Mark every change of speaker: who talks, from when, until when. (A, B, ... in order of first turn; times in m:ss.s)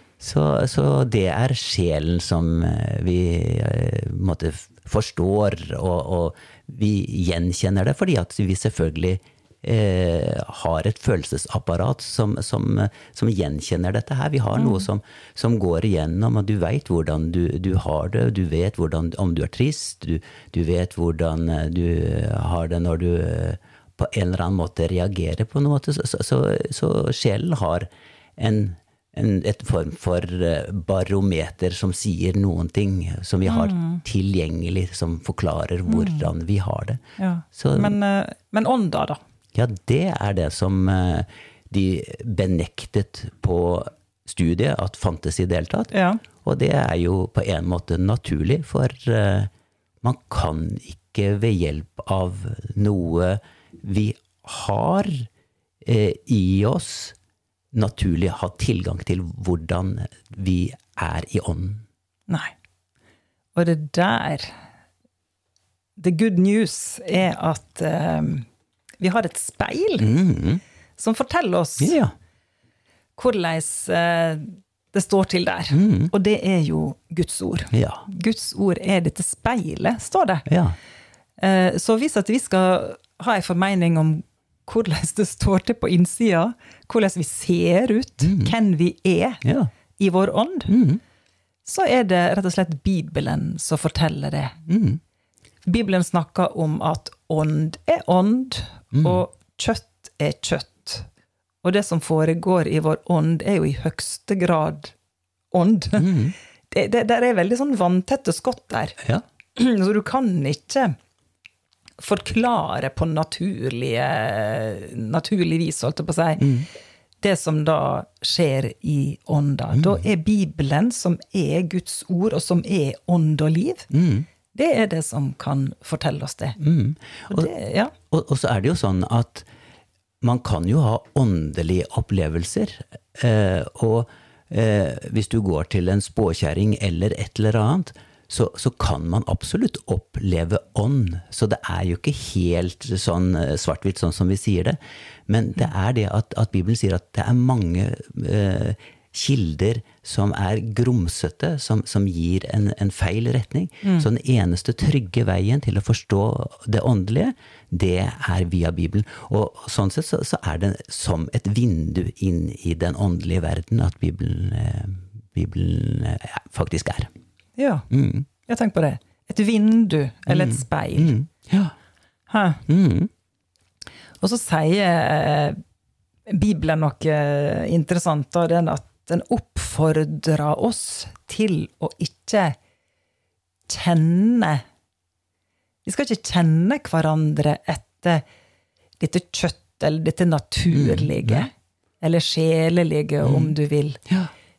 0:00.2-0:37.0 A
0:14.5-0:14.9 B
0:33.5-0:34.0 B
0:35.9-0:36.3 B
0:37.2-0:39.2 B
0:37.6-0:38.0 A
0:39.5-0:45.9 A
0:45.9-0:46.2 B
0:46.4-0:49.5 A
0:50.0-0:55.3 A
0:55.8-0:57.2 A
0:57.7-1:01.8 A
1:03.6-1:04.5 B
1:06.0-1:08.5 B
1:09.0-1:10.1 B
1:10.0-1:10.6 A
1:11.0-1:12.0 B
1:11.8-1:12.1 A
1:13.2-1:20.5 B
1:15.7-1:16.1 A
1:17.7-1:18.1 A
1:20.5-1:20.8 A
1:21.4-1:29.4 B
1:28.2-1:28.5 A
1:29.4-1:29.7 A
1:30.0-1:30.8 B
1:30.7-1:31.0 A
1:31.6-1:34.6 B
1:34.7-1:35.0 A
1:35.7-1:41.1 B
1:38.9-1:39.2 A
1:41.6-1:44.9 B
1:45.5-1:46.1 B
1:46.0-1:46.4 A
1:46.7-1:49.0 B
1:49.6-1:51.0 B
1:52.0-1:56.5 B
1:56.4-1:56.7 A
1:57.2-2:03.9 B
1:59.7-2:00.1 A
2:03.9-2:04.3 A
2:04.5-2:06.6 B
2:06.6-2:07.5 A
2:07.3-2:07.9 B
2:08.1-2:09.5 A
2:10.2-2:47.1 A
2:47.6-2:47.9 B
2:47.9-2:48.3 A
2:48.5-2:51.2 B
2:50.3-2:51.7 A
2:52.3-2:52.6 B
2:52.7-2:53.1 A
2:54.2-2:55.6 B
2:56.3-3:02.6 B
3:03.7-3:04.6 B
3:05.8-3:08.2 B
3:09.0-3:14.0 B
3:10.7-3:11.5 A
3:13.2-3:13.5 A